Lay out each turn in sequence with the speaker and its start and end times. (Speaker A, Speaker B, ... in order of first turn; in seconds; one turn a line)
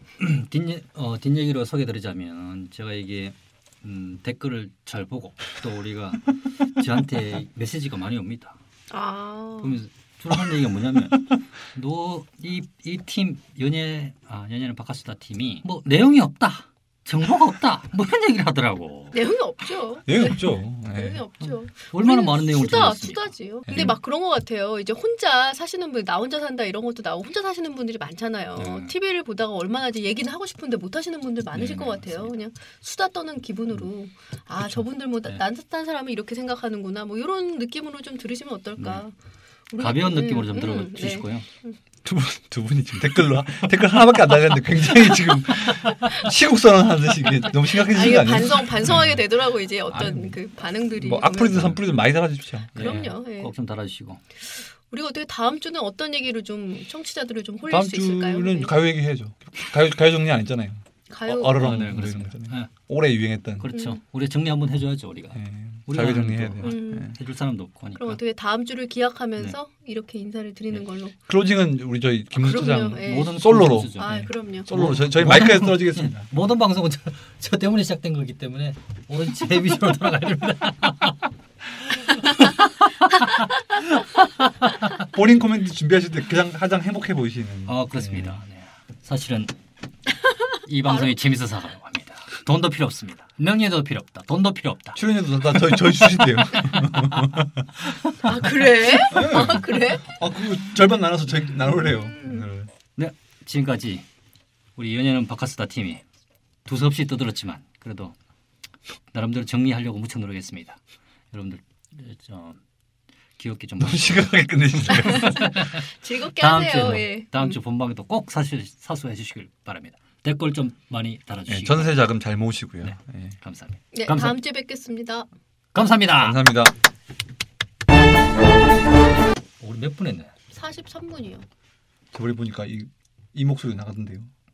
Speaker A: 0.2-8.6
Speaker B: 8.9-9.8
Speaker A: 9.6-19.2
Speaker B: 19.1-39.1
Speaker C: 20.1-21.2
Speaker A: 21.7-23.9
Speaker C: 23.7-23.9
Speaker A: 28.6-28.9
Speaker A: 31.5-32.4
Speaker B: 39.7-41.8
Speaker A: 39.8-41.5
Speaker C: 42.0-49.2
Speaker B: 47.7-51.8
Speaker C: 49.9-50.2
Speaker C: 51.0-52.9
Speaker B: 52.7-53.5
Speaker A: 52.7-54.2
Speaker B: 54.9-58.8
Speaker C: 57.7-63.7
Speaker B: 61.1-61.7
Speaker A: 61.5-62.7
Speaker A: 63.6-68.2
Speaker B: 63.7-64.0
Speaker C: 65.3-67.1
Speaker B: 66.6-67.1
Speaker B: 68.0-71.2
Speaker C: 71.3-74.0
Speaker B: 72.3-73.4
Speaker A: 73.0-81.2
Speaker B: 74.0-74.7
Speaker C: 74.7-76.3
Speaker A: 81.8-84.0
Speaker C: 85.1-88.4
Speaker A: 87.7-89.5
Speaker A: 90.7-95.0
Speaker B: 90.8-91.1
Speaker C: 94.9-97.7
Speaker A: 95.5-96.0
Speaker A: 97.9-98.1
Speaker B: 98.2-100.0
Speaker C: 99.1-102.7
Speaker B: 101.7-102.4
Speaker A: 103.0-104.0
Speaker A: 104.8-106.0
Speaker A: 106.7-108.1
Speaker A: 109.1-110.8
Speaker A: 111.3-112.6
Speaker A: 113.4-122.0
Speaker C: 113.8-115.4
Speaker B: 114.9-117.6
Speaker C: 121.5-123.3
Speaker A: 122.8-124.4
Speaker B: 123.9-125.3
Speaker A: 125.7-126.4
Speaker C: 126.2-126.7
Speaker A: 129.6-130.3
Speaker B: 130.5-131.4
Speaker C: 132.1-134.3